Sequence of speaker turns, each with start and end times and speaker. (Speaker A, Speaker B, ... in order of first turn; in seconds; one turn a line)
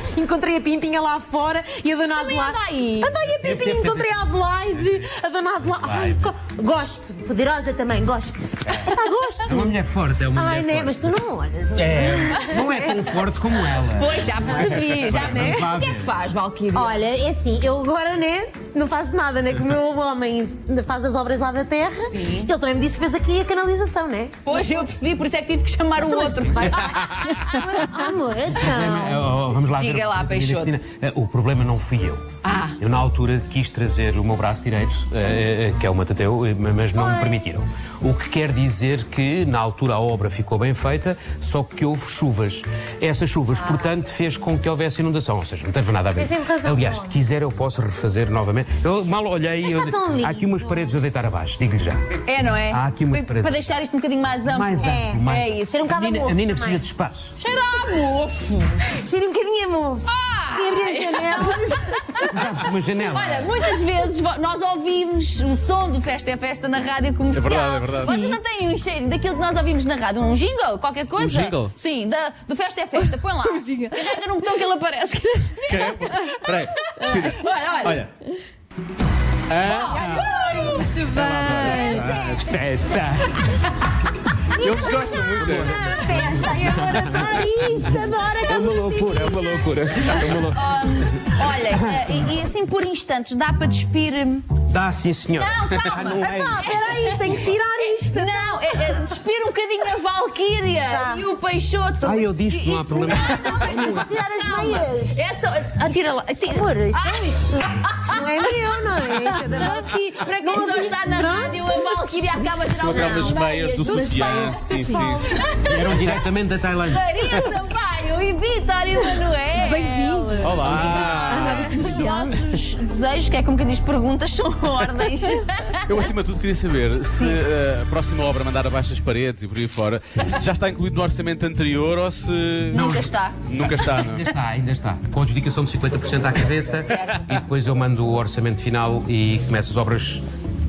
Speaker A: 0.2-9.8
Speaker B: 2.2-3.2
Speaker C: 3.4-4.1
Speaker C: 5.8-6.3
Speaker C: 9.4-11.1
Speaker A: 10.3-13.2
Speaker C: 11.8-16.1
Speaker B: 12.3-12.6
Speaker B: 13.9-17.0
Speaker A: 14.6-15.7
Speaker A: 16.7-24.8
Speaker B: 22.1-22.5
Speaker B: 24.4-27.8
Speaker A: 26.1-29.3
Speaker C: 28.6-32.2
Speaker B: 29.8-30.8
Speaker B: 32.4-32.8
Speaker C: 32.8-52.2
Speaker A: 36.9-37.4
Speaker A: 43.6-43.9
Speaker A: 46.2-47.2
Speaker A: 49.6-50.9
Speaker B: 52.3-56.0
Speaker C: 52.7-53.5
Speaker C: 54.5-57.4
Speaker A: 54.8-56.8
Speaker B: 57.4-58.9
Speaker A: 58.9-61.9
Speaker B: 60.1-62.4
Speaker C: 62.3-63.6
Speaker B: 63.1-78.1
Speaker D: 67.3-68.2
Speaker E: 68.0-68.4
Speaker D: 71.2-71.7
Speaker E: 73.0-74.2
Speaker D: 75.7-78.1
Speaker D: 79.5-80.3
Speaker B: 79.6-80.7
Speaker A: 79.9-80.9
Speaker E: 80.6-82.1
Speaker D: 81.1-82.3
Speaker A: 81.6-82.6
Speaker B: 81.7-82.4
Speaker C: 82.1-83.5
Speaker B: 83.3-83.5
Speaker A: 84.6-89.7
Speaker D: 84.6-86.0
Speaker C: 85.4-92.0
Speaker B: 90.1-94.5
Speaker C: 94.7-96.8
Speaker B: 95.4-116.3
Speaker A: 96.1-98.9
Speaker A: 100.9-101.3
Speaker C: 102.0-104.1
Speaker A: 103.0-105.2
Speaker A: 105.8-114.3
Speaker D: 112.8-115.3
Speaker E: 114.6-115.2
Speaker A: 114.9-115.4
Speaker C: 115.6-117.1
Speaker B: 116.9-125.9
Speaker E: 119.5-122.4
Speaker D: 120.4-122.0
Speaker A: 120.8-121.0
Speaker D: 125.9-134.3
Speaker B: 132.7-133.4
Speaker C: 132.7-133.1
Speaker C: 133.6-140.2
Speaker B: 136.8-137.3